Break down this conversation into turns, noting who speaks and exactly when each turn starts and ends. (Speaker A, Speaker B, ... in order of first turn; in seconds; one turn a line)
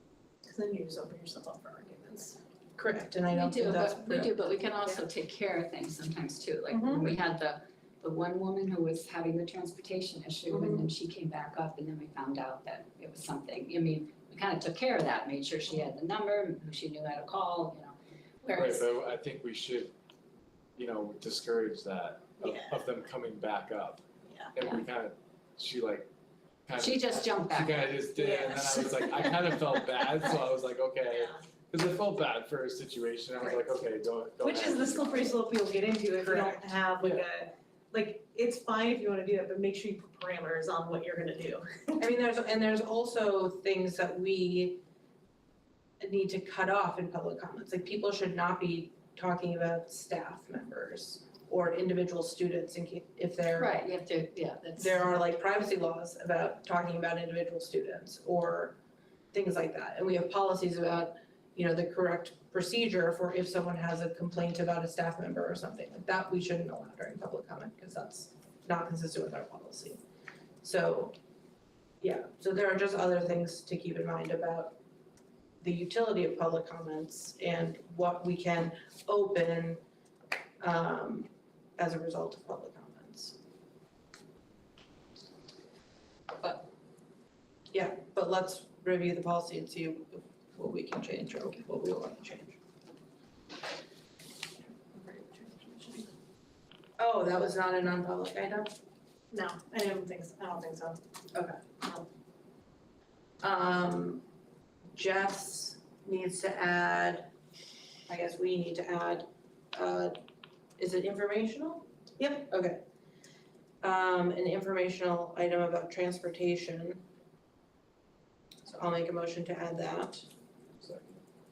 Speaker A: 0.4-2.4
Speaker B: 2.8-5.0
Speaker C: 3.3-18.9
Speaker A: 6.7-7.1
Speaker D: 18.5-19.9
Speaker D: 20.8-26.1
Speaker A: 22.4-22.8
Speaker D: 26.6-35.4
Speaker C: 26.8-28.0
Speaker A: 28.1-29.7
Speaker A: 31.1-31.4
Speaker A: 34.4-42.0
Speaker B: 36.2-36.6
Speaker B: 42.0-44.8
Speaker B: 46.0-53.8
Speaker C: 53.5-55.1
Speaker B: 54.8-58.8
Speaker B: 59.3-70.0
Speaker B: 70.6-71.1
Speaker B: 72.0-74.8
Speaker B: 75.6-79.8
Speaker B: 80.6-83.4
Speaker B: 86.4-86.7
Speaker B: 87.7-92.6
Speaker B: 94.9-96.1
Speaker B: 97.0-98.7
Speaker A: 99.3-101.0
Speaker B: 101.3-101.7
Speaker B: 103.4-104.2
Speaker B: 104.9-107.3
Speaker B: 108.1-110.2
Speaker B: 110.8-112.8
Speaker B: 113.8-117.0
Speaker B: 118.7-120.3
Speaker D: 120.8-121.2